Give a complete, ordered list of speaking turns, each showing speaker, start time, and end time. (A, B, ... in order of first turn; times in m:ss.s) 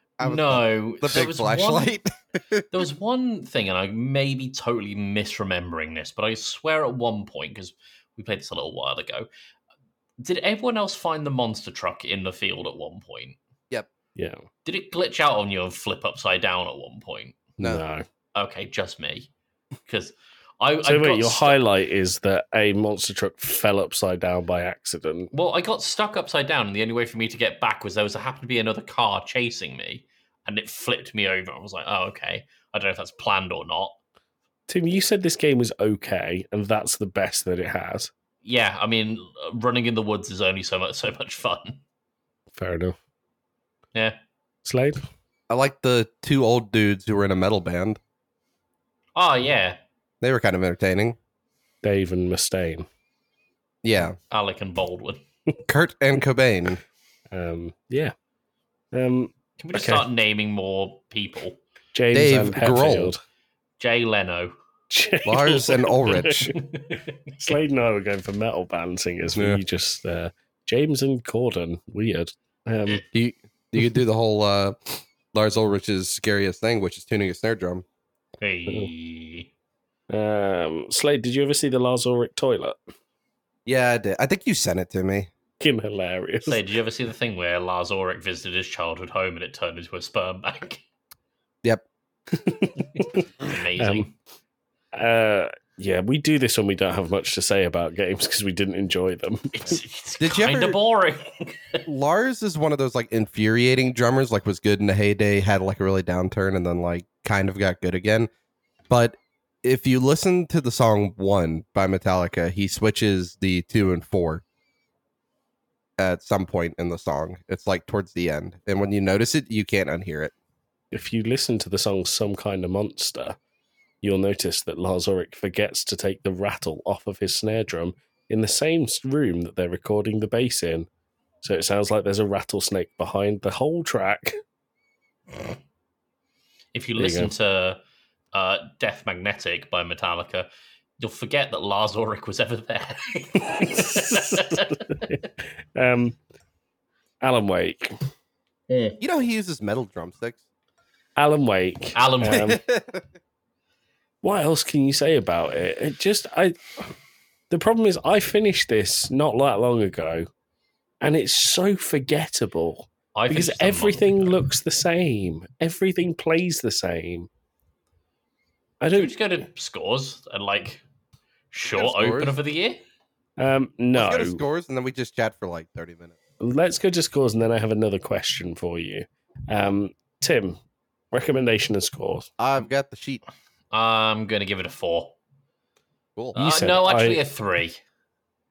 0:00.2-0:01.9 A
0:00.2-0:02.9 B
0:02.7-0:09.3 A
0:10.2-0:13.4 A
0:14.2-0:14.4 C
0:14.6-0:17.5 A
0:17.6-0:18.0 C
0:18.4-0:19.3 A
0:19.9-0:21.6 A
0:20.8-0:25.3 C
0:25.3-0:34.0 A
0:34.7-0:38.1 C
0:38.4-0:41.8 A
0:42.6-0:43.0 C
0:44.6-0:45.0 C
0:45.5-0:48.0 B
0:49.2-0:49.8 A
0:50.2-0:51.2 B
0:51.8-0:52.9 C
0:53.8-0:54.2 B
0:54.3-0:55.2 A
0:55.7-0:56.8 B
0:57.3-0:58.1 C
0:58.9-1:00.1 C
0:59.6-1:01.6 A
1:01.9-1:03.2 C
1:02.1-1:03.1 B
1:03.8-1:04.5 A
1:04.9-1:13.0 C
1:05.2-1:06.5 B
1:06.6-1:07.6 A
1:09.4-1:09.6 B
1:13.1-1:14.8 B
1:15.3-1:17.8 B
1:18.4-1:19.5 A
1:20.1-1:22.8 C
1:23.7-1:25.3 B
1:25.6-1:26.6 C
1:26.4-1:30.8 A
1:32.3-1:34.1 C
1:33.0-1:34.1 A
1:34.9-1:39.8 C
1:39.6-1:41.8 A
1:40.2-1:40.8 B
1:41.9-1:48.3 B
1:48.9-1:54.4 B
1:56.0-2:00.3 B
2:00.9-2:03.4 C
2:04.0-2:10.9 C
2:11.4-2:14.4 C
2:16.7-2:17.8 A
2:17.0-2:17.3 C
2:18.3-2:20.5 A
2:21.0-2:24.8 A
2:23.4-2:26.2 C
2:27.2-2:28.0 C
2:28.7-2:29.0 A
2:29.0-2:30.4 B
2:31.2-2:32.6 C
2:32.0-2:32.6 A
2:32.2-2:33.0 B
2:34.2-2:36.9 C
2:37.5-2:40.3 C
2:41.0-2:47.3 C
2:43.1-2:44.4 A
2:48.8-2:49.1 C
2:48.9-2:50.8 A
2:51.5-2:52.8 A
2:51.7-2:52.4 B
2:53.4-2:54.4 C
2:53.9-2:56.2 B
2:56.4-3:00.6 C
3:01.1-3:02.3 C
3:02.4-3:03.2 B
3:03.7-3:05.1 A
3:06.4-3:07.2 C
3:06.4-3:07.8 A